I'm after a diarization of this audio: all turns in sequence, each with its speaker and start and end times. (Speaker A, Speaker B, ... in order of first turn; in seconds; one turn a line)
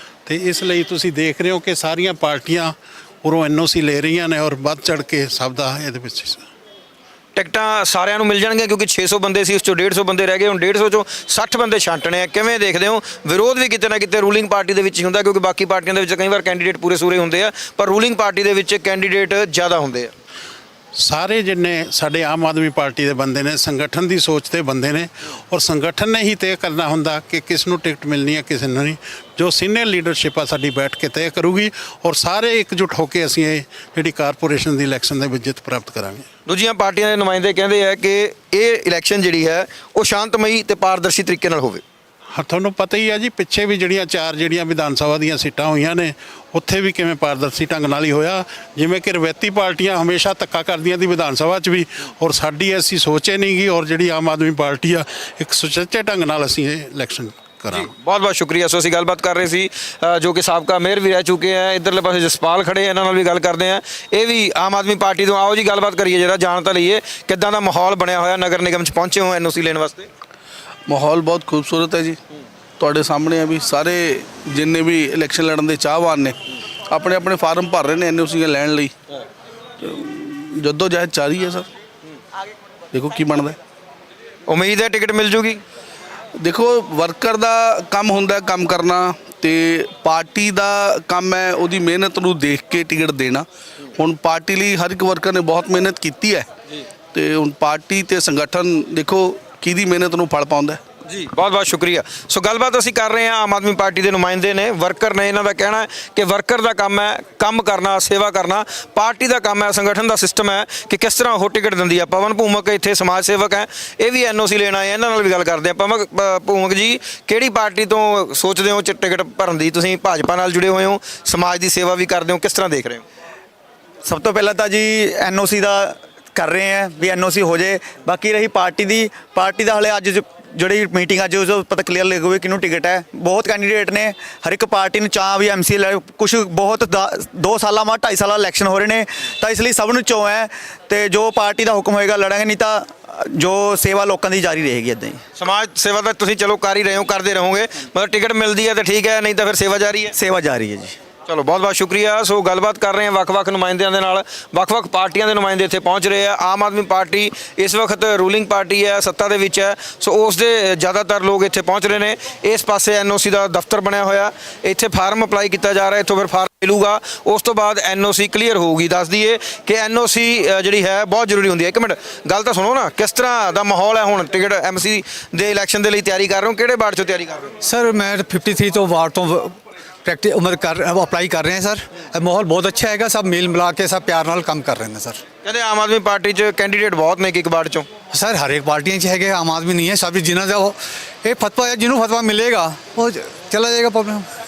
Speaker A: 0.3-6.4
Speaker B: 7.3-20.1
Speaker A: 21.0-36.2
Speaker B: 36.5-41.8
Speaker A: 42.4-57.9
Speaker B: 57.7-70.1
Speaker C: 70.9-72.2
Speaker C: 72.8-76.4
Speaker C: 76.9-78.9
Speaker C: 79.8-81.7
Speaker C: 82.9-83.6
Speaker B: 84.5-85.6
Speaker C: 86.4-96.5
Speaker C: 97.1-100.8
Speaker B: 101.1-123.0
Speaker D: 124.0-145.2
Speaker B: 145.4-150.1
Speaker D: 150.2-150.9
Speaker B: 151.3-177.5
Speaker E: 177.6-185.2
Speaker B: 185.4-187.9
Speaker E: 188.1-194.3